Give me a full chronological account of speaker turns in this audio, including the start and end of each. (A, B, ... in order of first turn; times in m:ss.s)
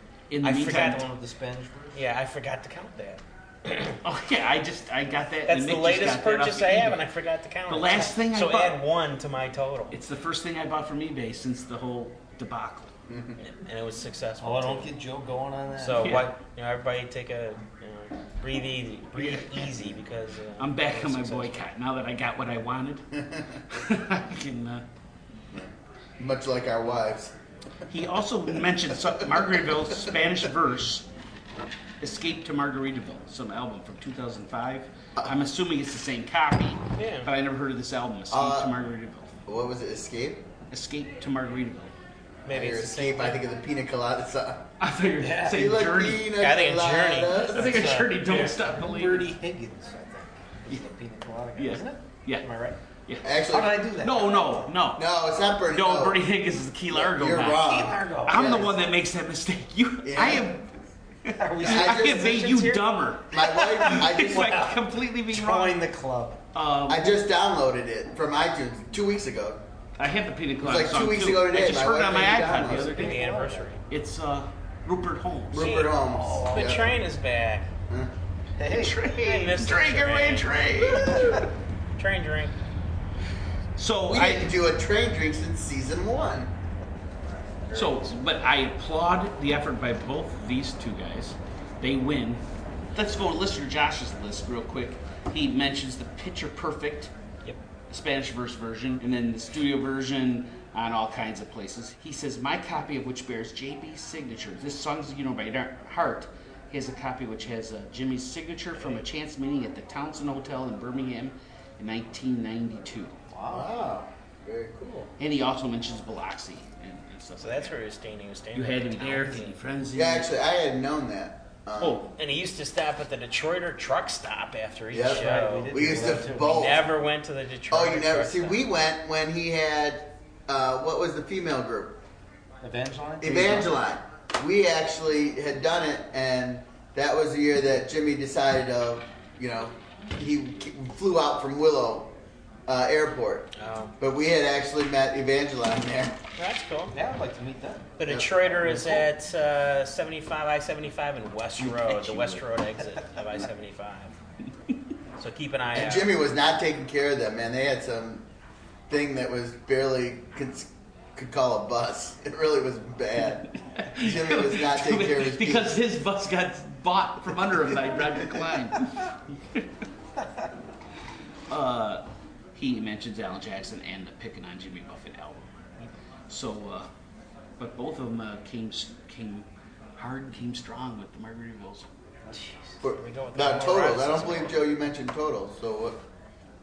0:00.3-0:01.0 A
0:00.4-0:01.1 B
0:00.9-0:02.0 C
0:01.9-0:04.0 B
0:04.0-0:07.0 A
0:05.5-0:10.0 B
0:07.7-0:08.8 A
0:09.9-0:12.9 A
0:13.1-0:13.4 D
0:13.4-0:14.9 B
0:14.4-0:16.2 C
0:15.8-0:21.6 B
0:16.0-0:16.3 A
0:19.2-0:19.6 A
0:20.6-0:24.8 A
0:25.5-0:27.3 D
0:27.9-0:31.1 A
0:29.2-0:29.4 D
0:32.0-0:39.3 A
0:37.0-0:37.3 B
0:38.3-0:38.7 D
0:39.5-0:40.4 D
0:40.7-0:41.9 A
0:42.5-0:43.4 B
0:42.5-0:44.7 D
0:44.8-0:46.3 A
0:45.2-0:45.6 C
0:45.5-0:47.9 D
0:46.4-0:48.5 B
0:47.4-0:49.3 A
0:48.2-0:52.8 C
0:51.6-0:52.5 A
0:53.1-0:55.1 A
0:53.2-0:53.8 D
0:53.5-0:54.7 C
0:55.0-0:56.2 D
0:55.7-1:00.7 A
0:56.9-0:58.8 D
0:57.6-0:58.7 C
1:00.0-1:00.5 D
1:01.2-1:05.8 A
1:01.4-1:04.7 C
1:01.6-1:02.4 D
1:03.3-1:04.7 D
1:05.3-1:06.4 C
1:06.5-1:07.1 A
1:06.9-1:09.6 D
1:10.0-1:13.2 A
1:10.6-1:13.0 D
1:12.7-1:13.7 C
1:13.0-1:13.8 B
1:13.9-1:15.7 A
1:15.5-1:16.9 D
1:15.6-1:16.0 B
1:16.0-1:16.9 C
1:16.5-1:17.7 B
1:18.6-1:19.0 C
1:18.7-1:21.5 A
1:19.2-1:20.6 B
1:21.1-1:21.4 C
1:22.0-1:22.5 B
1:23.8-1:24.5 A
1:24.1-1:26.5 D
1:27.7-1:32.4 A
1:32.9-1:37.1 A
1:37.9-1:53.2 A
1:48.8-1:49.0 B
1:53.3-1:53.7 C
1:53.5-1:55.1 D
1:55.2-1:57.8 A
1:57.4-1:59.6 B
1:58.5-2:00.3 A
1:59.9-2:02.1 D
2:01.8-2:02.1 A
2:02.2-2:08.6 B
2:04.9-2:06.9 D
2:05.1-2:06.7 C
2:07.7-2:12.0 D
2:12.6-2:13.7 C
2:13.2-2:22.1 D
2:22.7-2:26.2 D
2:23.6-2:23.9 B
2:26.4-2:26.9 B
2:26.9-2:27.9 C
2:28.0-2:34.1 B
2:28.0-2:28.8 D
2:31.6-2:32.4 A
2:35.2-2:36.1 B
2:35.7-2:38.2 D
2:38.9-2:45.8 D
2:43.8-2:49.6 A
2:48.0-2:48.4 D
2:51.5-2:52.0 A
2:52.6-2:55.5 A
2:56.3-2:56.9 A
2:57.6-2:59.5 A
3:00.0-3:01.9 A
3:02.3-3:04.6 B
3:02.8-3:06.0 D